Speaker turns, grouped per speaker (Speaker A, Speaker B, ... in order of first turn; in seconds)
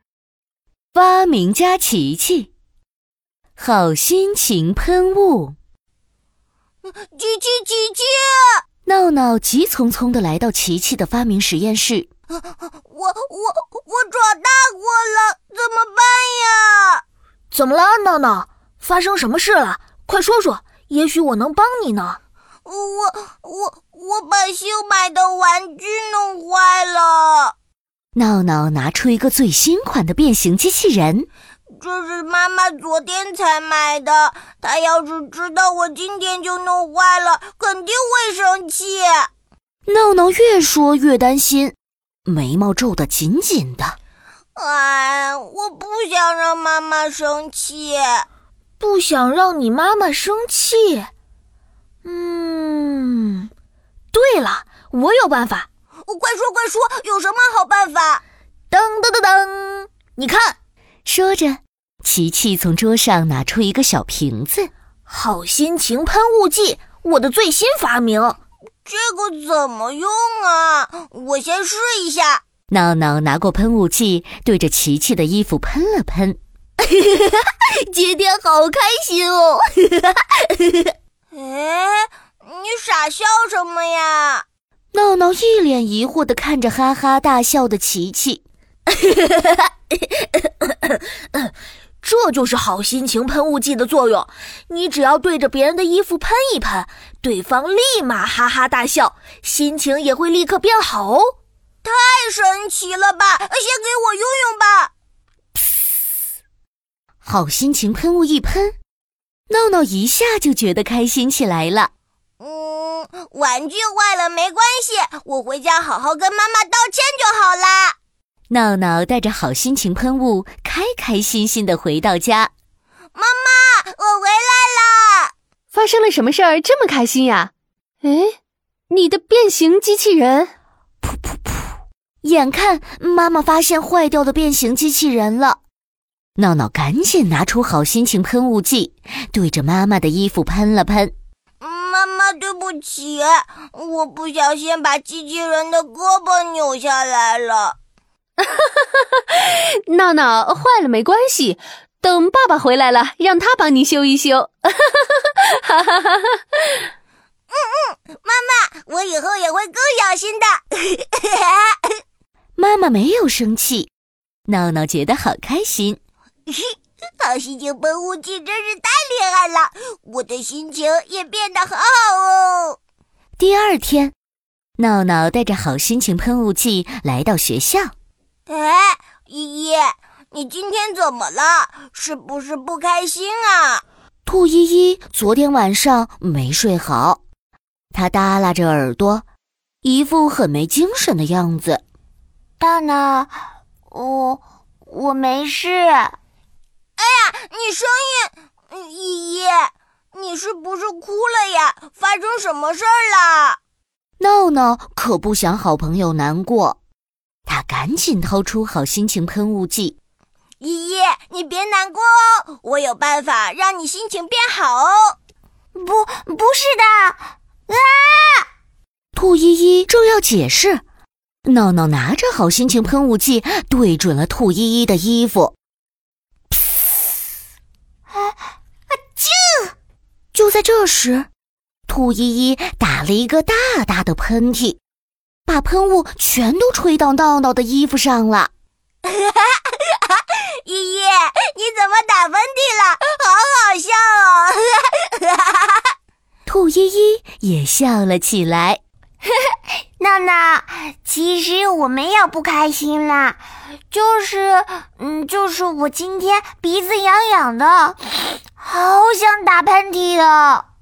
Speaker A: 0.9-2.5, 3.6-5.5, 8.8-12.1, 28.1-31.3, 39.9-44.0, 61.0-64.7, 72.7-76.4, 78.0-78.8, 84.9-88.4, 107.2-108.7, 109.5-111.9, 118.5-122.5, 131.0-135.6, 136.4-141.1, 162.6-163.9, 164.5-166.0, 173.4-174.1, 174.8-177.9, 184.2-187.2, 187.9-189.2, 189.8-191.8, 204.2-206.8, 207.4-209.9, 219.1-220.8, 221.4-225.5, 230.3-231.3, 231.9-234.8, 235.5-238.5, 246.4-248.8
Speaker B: 7.0-8.6, 12.8-17.0, 22.6-27.5, 31.8-39.3, 44.5-48.2, 56.1-58.2, 68.8-72.4, 78.9-79.3, 81.3-84.4, 101.8-104.9, 112.4-117.9, 123.1-125.3, 141.6-147.8, 157.5-161.7, 167.2-172.8, 178.5-183.8, 197.0-203.6, 210.6-215.2, 239.1-240.0, 240.6-245.8
Speaker C: 17.5-22.2, 48.8-51.1, 52.0-53.5, 54.1-55.7, 58.7-60.5, 65.1-68.4, 92.0-101.2
Speaker D: 125.7-127.5, 128.0-128.3, 128.9-130.5, 149.8-155.1, 155.6-156.4
Speaker E: 192.6-193.3, 193.9-196.2, 215.8-218.4, 228.9-229.7, 250.0-253.4, 253.9-258.0, 258.6-260.6